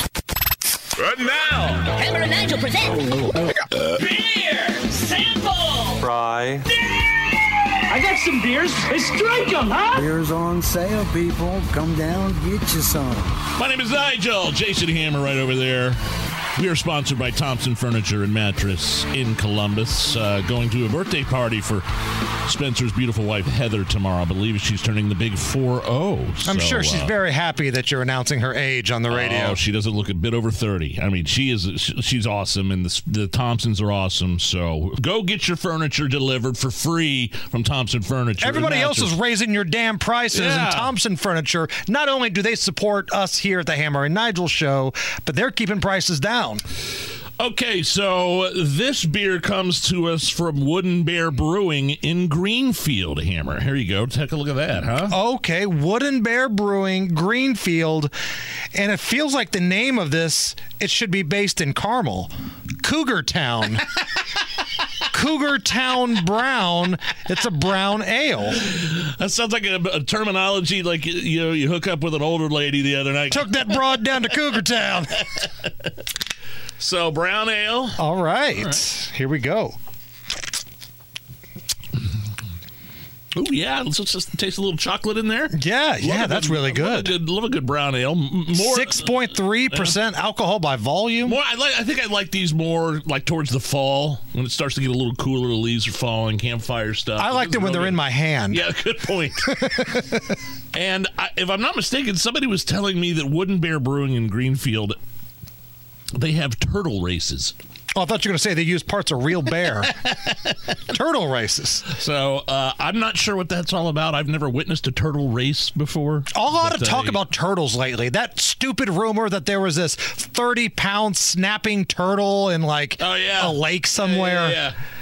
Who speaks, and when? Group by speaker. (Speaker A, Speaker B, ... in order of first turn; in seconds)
Speaker A: 1.0-1.7, 13.5-16.0, 16.5-21.9, 22.4-27.1, 29.1-39.1, 40.3-40.9, 47.4-55.1, 68.6-74.2, 76.8-78.0, 83.3-89.9, 91.2-99.5, 100.7-105.0, 106.1-107.5, 110.0-110.5, 111.9-117.2, 123.0-124.8
Speaker B: 1.3-3.0, 5.1-6.1
Speaker C: 3.0-3.5, 9.9-13.4
Speaker D: 4.1-5.7, 7.9-10.0
Speaker E: 26.4-29.6, 38.4-46.6, 55.1-58.1, 58.7-62.3, 62.8-63.8, 65.1-68.6, 73.3-75.2, 78.0-79.8, 85.5-87.1, 88.5-91.4, 97.2-98.6, 99.4-100.3, 107.9-110.0, 110.9-111.9, 116.3-124.6